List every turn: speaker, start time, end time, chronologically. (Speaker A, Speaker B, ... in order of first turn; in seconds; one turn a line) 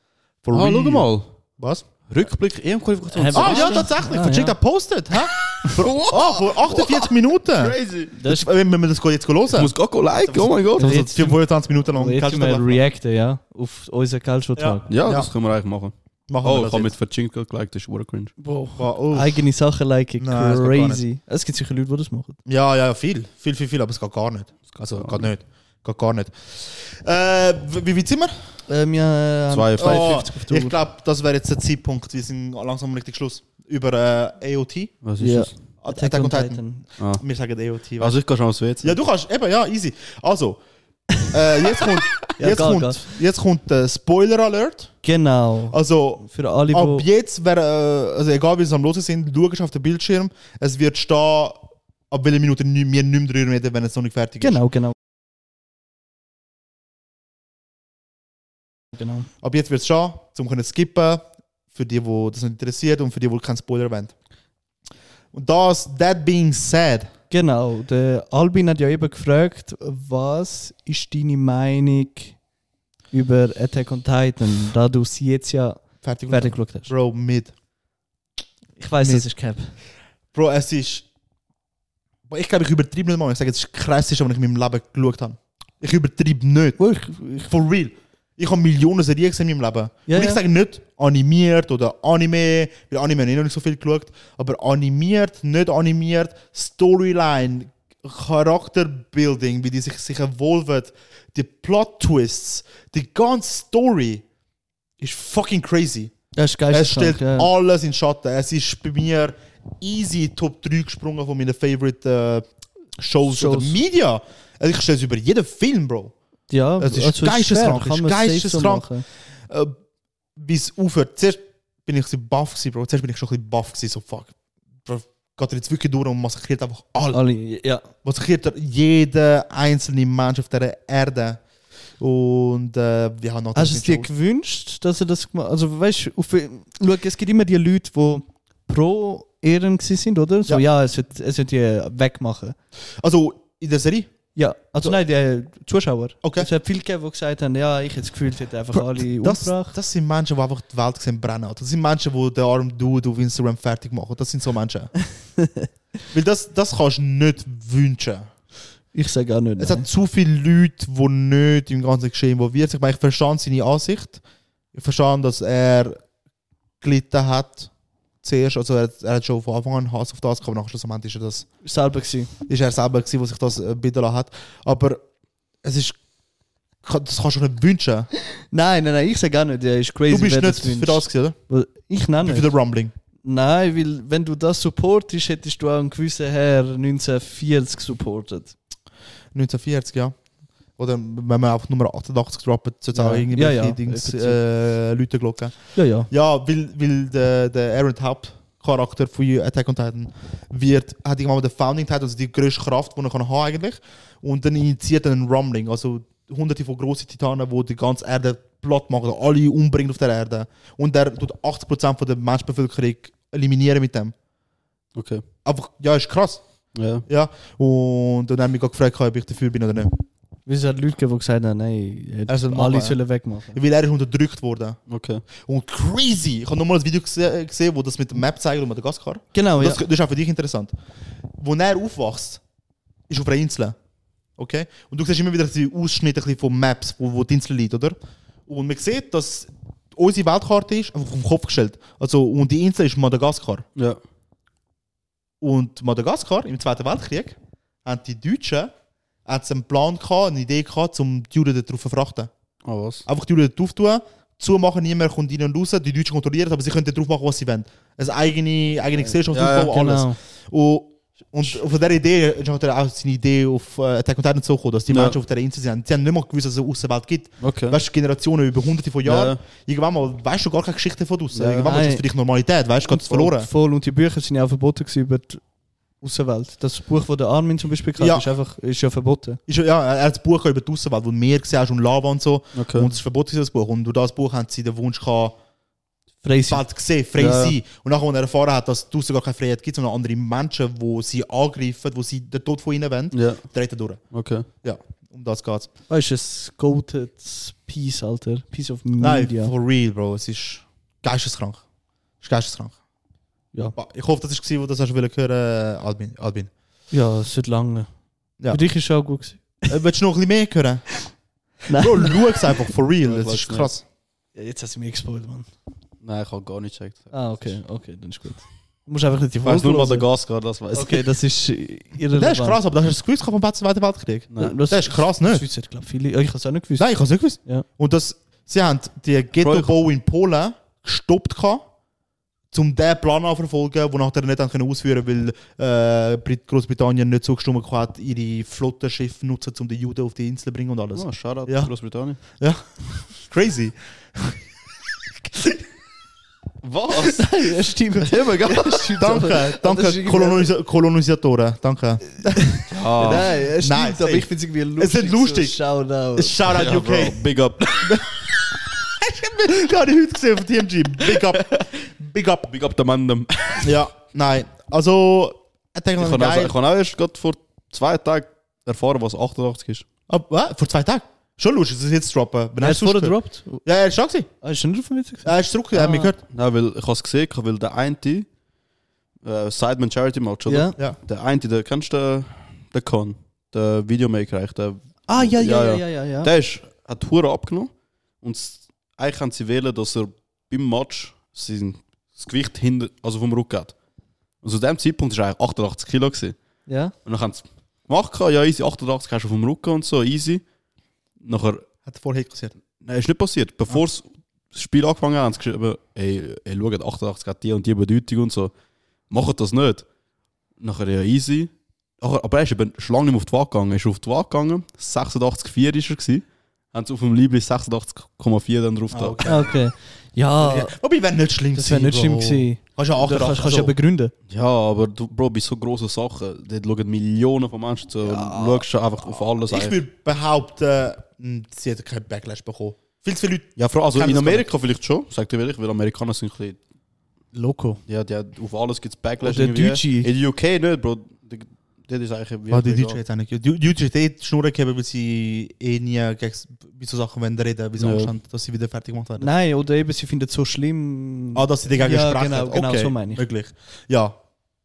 Speaker A: 0.4-1.9
Speaker B: 0.5-1.3
Speaker B: 2.1-4.0
Speaker C: 3.1-4.6
Speaker A: 3.3-12.8
Speaker B: 5.6-8.1
Speaker B: 9.5-10.9
Speaker C: 10.8-14.9
Speaker A: 14.6-15.3
Speaker B: 14.9-18.4
Speaker A: 16.3-16.9
Speaker C: 18.4-22.4
Speaker A: 18.8-19.4
Speaker A: 20.2-21.1
Speaker A: 22.5-28.4
Speaker B: 24.7-25.2
Speaker C: 28.7-30.8
Speaker B: 29.5-30.2
Speaker A: 29.8-35.0
Speaker B: 35.0-35.6
Speaker C: 35.2-36.8
Speaker A: 35.8-40.6
Speaker B: 37.0-37.2
Speaker B: 38.0-39.0
Speaker A: 41.2-45.0
Speaker C: 42.4-43.1
Speaker C: 45.0-47.0
Speaker A: 45.7-54.6
Speaker C: 54.4-54.9
Speaker C: 59.0-59.3
Speaker A: 59.4-64.1
Speaker A: 65.3-67.1
Speaker C: 67.3-72.4
Speaker C: 73.1-76.9
Speaker A: 76.0-77.6
Speaker C: 78.8-79.8
Speaker A: 79.0-79.3
Speaker A: 80.3-81.1
Speaker A: 82.3-86.8
Speaker C: 86.8-87.5
Speaker A: 87.4-104.2
Speaker C: 90.1-90.4
Speaker A: 105.0-106.1
Speaker C: 106.3-107.5
Speaker A: 106.7-112.5
Speaker A: 113.0-116.2
Speaker C: 113.3-113.8
Speaker C: 116.5-119.0
Speaker A: 116.8-119.7
Speaker A: 120.4-124.3
Speaker A: 124.8-127.2
Speaker C: 127.1-127.9
Speaker A: 128.0-131.4
Speaker A: 132.0-134.1
Speaker C: 133.6-142.6
Speaker A: 143.0-144.1
Speaker C: 144.3-149.8
Speaker A: 146.2-146.5
Speaker A: 148.7-155.1
Speaker C: 155.4-155.7
Speaker A: 156.1-158.3
Speaker C: 158.9-159.9
Speaker A: 159.6-164.2
Speaker A: 164.7-166.0
Speaker A: 166.8-167.7
Speaker A: 168.2-171.5
Speaker C: 171.6-172.3
Speaker A: 172.5-175.0
Speaker A: 175.6-176.0
Speaker A: 176.8-178.1
Speaker C: 178.5-182.5
Speaker A: 180.1-181.4
Speaker A: 182.2-182.9
Speaker C: 183.2-188.6
Speaker A: 189.3-190.2
Speaker A: 190.8-214.1
Speaker C: 192.9-194.4
Speaker C: 195.8-196.1
Speaker B: 214.9-215.2
Speaker A: 215.4-216.4
Speaker B: 216.8-217.1
Speaker A: 217.0-219.9
Speaker C: 220.5-223.6
Speaker A: 222.3-224.8
Speaker B: 224.9-225.2
Speaker A: 225.4-230.7
Speaker C: 229.3-229.8
Speaker A: 231.4-232.4
Speaker A: 233.1-233.8
Speaker A: 234.4-238.0
Speaker A: 238.5-243.7
Speaker A: 245.4-248.7
Speaker A: 249.3-252.3
Speaker B: 252.7-253.0
Speaker A: 253.1-273.5
Speaker B: 259.3-259.7
Speaker C: 259.7-260.2
Speaker B: 264.9-265.2
Speaker B: 267.4-267.8
Speaker B: 269.0-269.4
Speaker B: 271.3-271.7
Speaker C: 271.6-272.0
Speaker C: 272.9-275.4
Speaker C: 276.0-279.4
Speaker A: 278.0-278.3
Speaker A: 279.5-285.4
Speaker B: 282.6-282.9
Speaker C: 286.2-286.6
Speaker A: 286.5-294.1
Speaker B: 287.2-287.6
Speaker B: 293.1-293.5
Speaker B: 294.1-294.5
Speaker A: 294.6-295.7
Speaker C: 295.9-299.5
Speaker A: 299.0-301.6
Speaker A: 302.2-302.8
Speaker A: 303.7-306.5
Speaker C: 306.9-307.9
Speaker C: 308.5-309.8
Speaker A: 309.7-311.1
Speaker C: 311.7-312.2
Speaker A: 311.7-313.9
Speaker B: 313.0-313.7
Speaker C: 314.4-315.5
Speaker B: 316.0-317.6
Speaker C: 317.1-320.1
Speaker B: 319.4-321.1
Speaker C: 320.7-322.6
Speaker A: 322.1-325.5
Speaker B: 324.3-324.6
Speaker C: 324.4-327.7
Speaker A: 326.8-331.7
Speaker B: 329.4-329.7
Speaker A: 332.5-344.4
Speaker B: 341.0-342.2
Speaker B: 346.6-347.3
Speaker C: 347.1-350.5
Speaker B: 348.0-348.9
Speaker A: 349.0-355.6
Speaker C: 352.6-356.4
Speaker B: 352.7-353.3
Speaker A: 356.1-357.2
Speaker B: 356.5-358.0
Speaker A: 359.0-362.5
Speaker B: 361.4-361.7
Speaker B: 362.5-363.7
Speaker A: 363.6-366.5
Speaker B: 366.0-369.9
Speaker A: 370.1-374.3
Speaker C: 372.6-373.6
Speaker C: 374.4-376.1
Speaker A: 375.2-376.2
Speaker B: 376.3-378.3
Speaker B: 379.2-393.8
Speaker C: 380.5-380.8
Speaker C: 385.1-386.3
Speaker B: 394.4-396.4
Speaker C: 396.7-396.9
Speaker B: 397.1-400.4
Speaker B: 401.2-401.6
Speaker A: 401.9-402.5
Speaker B: 402.8-408.5
Speaker B: 409.1-409.9
Speaker B: 410.6-419.2
Speaker A: 418.9-419.6
Speaker C: 419.2-420.7
Speaker A: 420.4-423.7
Speaker C: 421.6-424.1
Speaker B: 424.3-429.8
Speaker C: 428.0-428.6
Speaker A: 429.3-434.5
Speaker B: 433.6-436.6
Speaker C: 437.3-437.8
Speaker B: 437.9-443.0
Speaker C: 439.2-440.1
Speaker A: 442.5-449.3
Speaker B: 447.8-448.1
Speaker C: 449.2-453.2
Speaker A: 451.4-454.2